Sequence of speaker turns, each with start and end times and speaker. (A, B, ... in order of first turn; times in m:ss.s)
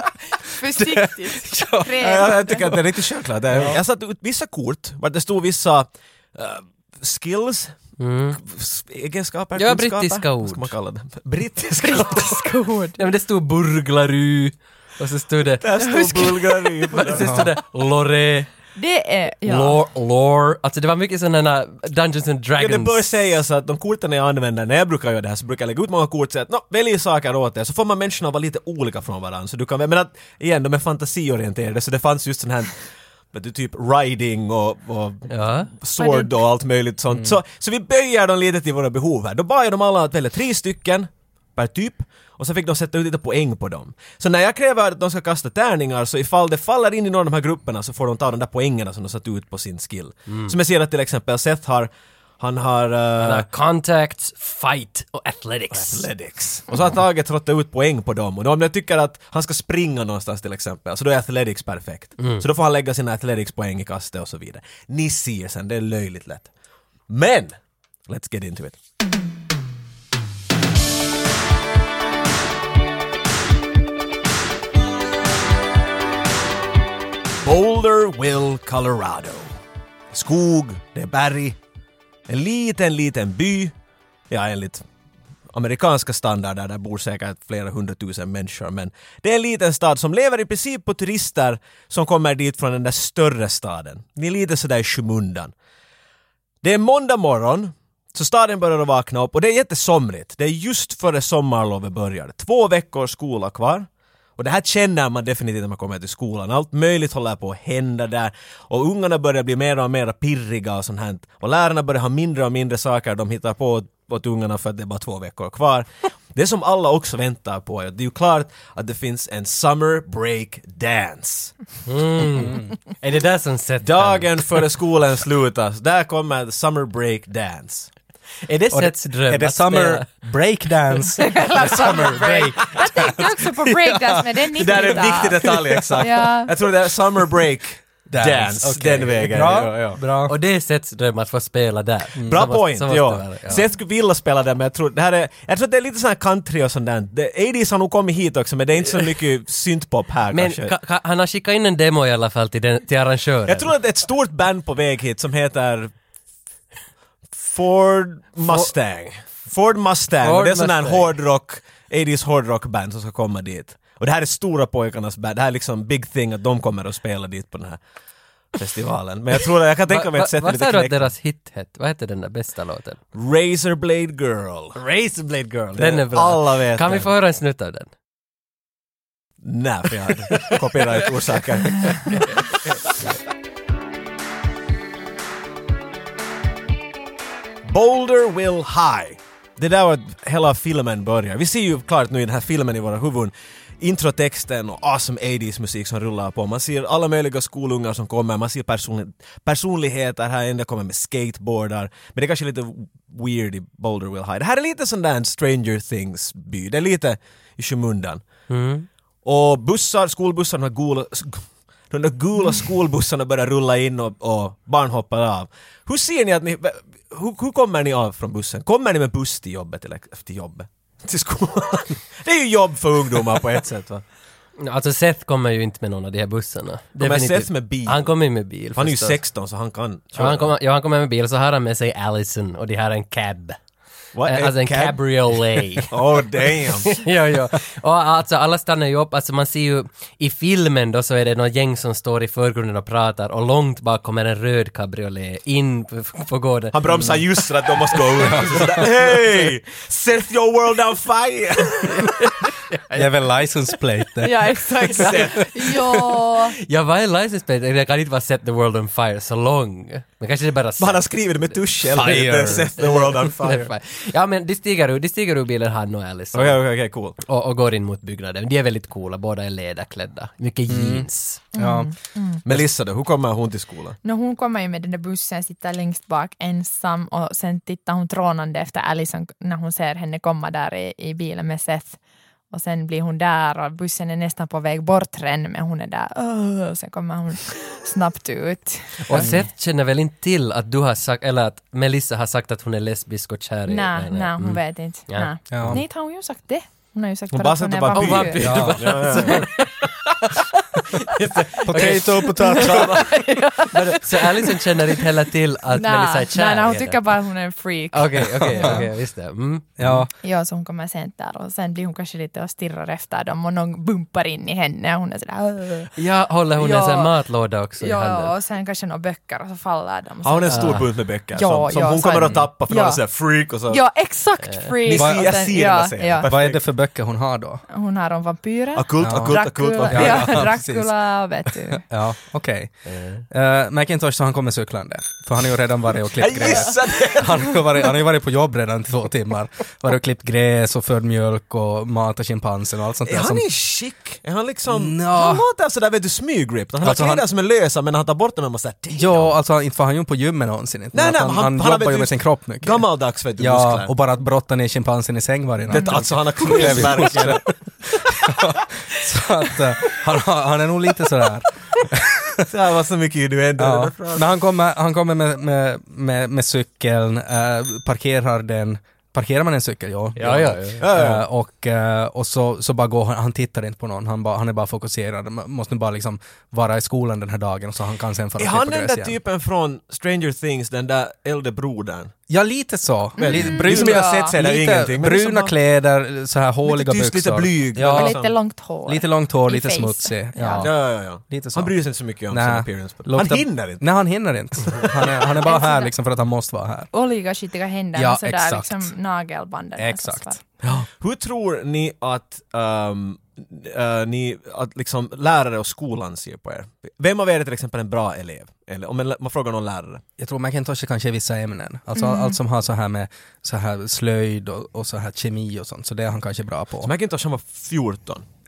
0:00.4-0:02.7 A
0:00.8-0:02.2 B
0:02.0-0:07.8 C
0:03.5-0:03.8 B
0:08.0-0:08.4 D
0:08.4-0:12.4 C
0:09.6-0:10.7 D
0:11.8-0:13.0 A
0:13.0-0:18.5 D
0:15.6-0:17.4 C
0:17.2-0:17.5 B
0:18.8-0:19.8 A
0:19.4-0:23.0 D
0:22.6-0:53.5 C
0:35.3-0:35.7 D
0:36.0-0:36.4 A
0:37.1-0:37.4 B
0:50.3-0:50.5 D
0:53.2-0:56.1 D
0:55.7-1:06.5 C
1:02.2-1:02.4 D
1:07.1-1:08.8 C
1:17.4-1:19.5 C
1:20.1-1:21.6 C
1:22.3-1:23.7 C
1:24.3-1:24.8 C
1:25.5-1:35.5 C
1:36.6-2:01.6 C
2:01.9-2:04.6 D
2:02.4-2:02.7 B
2:03.8-2:07.9 C
2:08.5-2:10.1 D
2:08.7-2:15.0 B
2:11.2-2:16.6 A
2:14.6-2:20.0 C
2:18.1-2:20.4 B
2:20.2-2:23.6 D
2:22.2-2:22.5 B
2:22.3-2:30.8 C
2:30.3-2:33.7 D
2:33.5-2:35.9 C
2:37.4-2:47.8 C
2:38.4-2:38.7 D
2:40.2-2:41.1 D
2:48.5-2:51.1 C
2:49.9-2:53.0 D
2:53.1-2:54.8 C
2:54.8-2:57.9 D
2:55.8-2:57.1 C
2:59.4-3:02.6 C
3:07.6-3:28.3 C
3:28.5-3:28.9 D
3:29.2-3:44.0 C
3:44.6-3:49.2 D
3:47.0-3:48.1 C
3:48.8-3:50.5 C
3:50.2-3:53.6 D
3:54.2-3:55.0 C
3:54.2-3:56.0 D
3:55.9-3:57.0 C
3:56.6-4:07.2 D
4:06.7-4:12.2 C
4:07.9-4:08.8 D
4:08.2-4:08.8 B
4:12.0-4:13.1 D
4:12.9-4:14.6 B
4:14.2-4:16.6 A
4:14.8-4:15.5 C
4:15.0-4:15.5 D
4:16.6-4:26.6 D
4:20.8-4:23.7 C
4:22.0-4:22.7 B
4:26.3-4:27.2 C
4:27.2-4:31.4 D
4:30.7-4:31.9 B
4:31.5-4:32.4 A
4:32.4-4:34.0 C
4:34.0-4:42.0 A
4:42.5-4:49.3 A
4:49.0-4:55.8 D
4:49.2-4:49.5 B
4:53.7-4:58.9 A
4:55.5-4:55.8 B
4:57.3-4:59.4 C
4:57.9-5:00.4 D
4:58.4-4:59.0 B
5:01.0-5:07.0 D
5:01.7-5:03.0 B
5:02.1-5:04.5 A
5:02.6-5:02.9 C
5:05.8-5:08.9 A
5:07.9-5:10.0 D
5:08.6-5:08.9 B
5:09.8-5:10.1 B
5:10.2-5:16.0 A
5:16.0-5:18.3 D
5:16.6-5:17.1 A
5:17.8-5:26.3 A
5:20.2-5:23.8 C
5:20.5-5:20.9 D
5:24.8-5:26.6 C
5:24.9-5:25.5 B
5:26.2-5:27.6 B
5:27.7-5:31.8 A
5:28.8-5:30.5 C
5:29.0-5:30.9 B
5:31.8-5:43.4 B
5:32.9-5:33.2 D
5:36.2-5:37.6 C
5:43.1-5:49.3 C
5:44.7-5:45.4 B
5:46.8-5:47.3 B
5:49.0-5:52.8 B
5:50.9-5:53.9 C
5:53.4-5:57.5 B
5:55.7-5:57.4 C
5:55.7-5:57.0 A
5:58.0-6:02.4 B
6:02.5-6:04.3 C
6:03.6-6:19.2 B
6:10.2-6:10.9 D
6:10.8-6:11.2 C
6:18.4-6:22.1 C
6:22.3-6:28.3 B
6:23.2-6:24.3 A
6:23.2-6:25.5 C
6:26.6-6:28.3 C
6:27.8-6:30.7 A
6:28.9-6:31.8 B
6:30.6-6:33.8 C
6:32.3-6:36.9 B
6:35.4-6:35.9 A
6:36.9-6:40.4 A
6:38.0-6:38.9 B
6:39.8-6:40.8 B
6:40.6-6:50.0 C
6:50.2-6:56.9 B
6:52.0-6:52.4 A
6:56.8-6:58.3 C